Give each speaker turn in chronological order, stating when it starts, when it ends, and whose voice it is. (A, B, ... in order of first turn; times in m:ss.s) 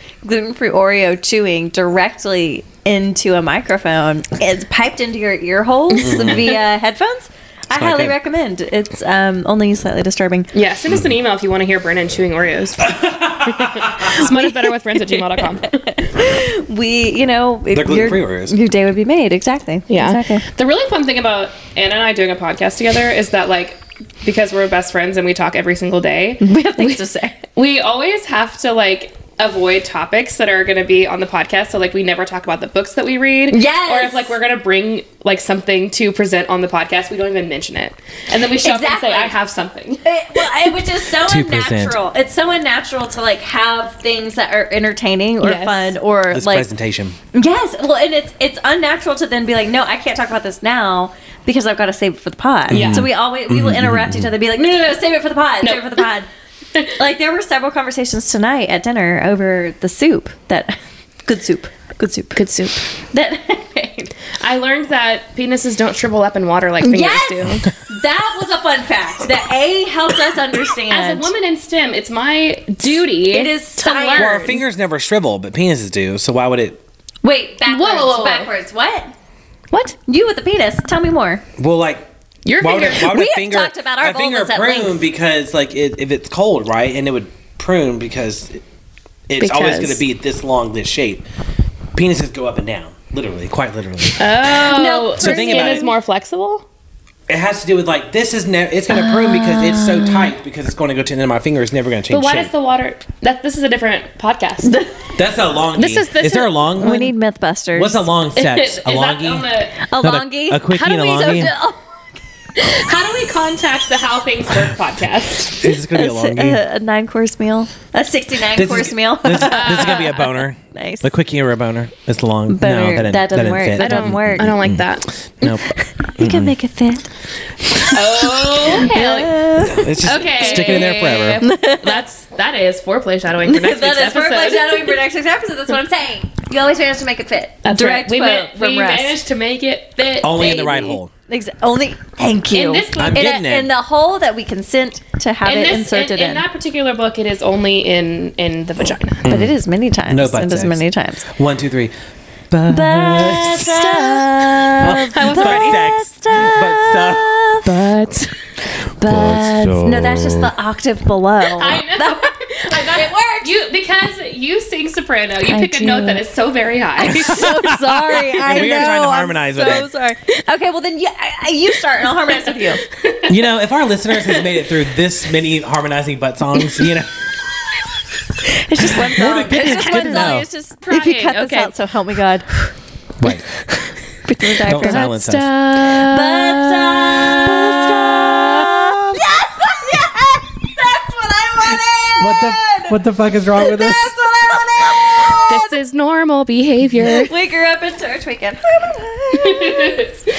0:00.2-0:10.5 A
0:05.9-0:06.6 B
0:06.0-0:06.6 C
0:07.7-0:08.2 C
0:10.5-0:12.9 B
0:12.8-0:14.2 C
0:13.4-0:15.7 B
0:14.1-0:20.4 A
0:17.7-0:18.5 C
0:19.9-0:27.0 B
0:26.4-0:27.4 A
0:27.5-0:40.0 B
0:33.5-0:34.3 A
0:38.6-0:39.3 A
0:40.0-0:46.7 A
0:41.1-0:42.0 C
0:45.4-0:45.9 B
0:46.3-0:47.2 C
0:47.3-0:56.3 A
0:52.7-0:54.3 C
0:52.7-0:53.1 B
0:55.6-0:56.0 B
0:56.8-1:04.1 A
1:02.3-1:02.8 B
1:04.4-1:07.7 B
1:06.8-1:11.3 A
1:10.9-1:14.6 B
1:12.9-1:14.5 A
1:14.1-1:16.8 C
1:17.2-1:19.1 A
1:17.6-1:18.5 B
1:19.7-1:20.0 B
1:20.1-1:21.4 A
1:21.6-1:22.1 C
1:22.4-1:23.2 B
1:22.6-1:28.6 C
1:23.0-1:25.0 A
1:29.3-1:31.2 C
1:29.4-1:30.0 B
1:31.9-1:34.6 C
1:34.2-1:36.6 B
1:34.6-1:35.9 A
1:35.2-1:35.9 C
1:37.3-1:42.5 C
1:38.9-1:40.3 A
1:42.1-1:44.8 B
1:44.6-1:45.0 A
1:45.2-1:47.1 C
1:45.8-1:46.6 B
1:46.8-1:48.1 A
1:47.7-1:49.5 C
1:48.3-1:49.8 B
1:49.8-1:52.0 A
1:50.0-1:51.5 C
1:50.8-1:51.5 B
1:52.6-1:55.6 B
1:55.5-1:56.6 C
1:55.7-2:01.1 A
1:58.5-2:05.6 C
1:59.4-2:00.2 B
2:02.5-2:04.6 A
2:03.8-2:05.1 B
2:05.7-2:07.0 A
2:06.2-2:06.5 C
2:07.7-2:12.0 A
2:07.9-2:09.4 B
2:09.6-2:11.4 C
2:10.0-2:15.0 B
2:13.4-2:19.2 A
2:17.6-2:20.7 B
2:20.2-2:21.1 C
2:20.3-2:26.4 A
2:22.5-2:23.3 B
2:23.0-2:23.7 C
2:25.4-2:29.2 B
2:29.2-2:29.5 C
2:29.3-2:31.3 A
2:30.1-2:31.9 C
2:32.5-2:37.8 C
2:32.7-2:37.9 A
2:35.1-2:35.9 B
2:37.7-2:38.3 B
2:38.8-2:43.5 A
2:39.0-2:40.5 C
2:41.6-2:47.4 B
2:45.5-2:46.2 A
2:47.0-2:52.8 A
2:47.1-2:49.9 C
2:52.3-2:53.4 B
2:53.3-2:57.3 C
2:54.1-2:54.6 B
2:58.4-3:02.5 A
2:58.9-3:00.5 C
2:59.6-3:01.7 B
3:03.2-3:03.5 C
3:04.2-3:05.1 A
3:04.6-3:05.5 C
3:04.7-3:08.7 B
3:05.8-3:13.0 A
3:11.7-3:14.2 C
3:13.5-3:15.7 A
3:15.3-3:17.3 B
3:17.0-3:20.1 A
3:19.4-3:20.2 B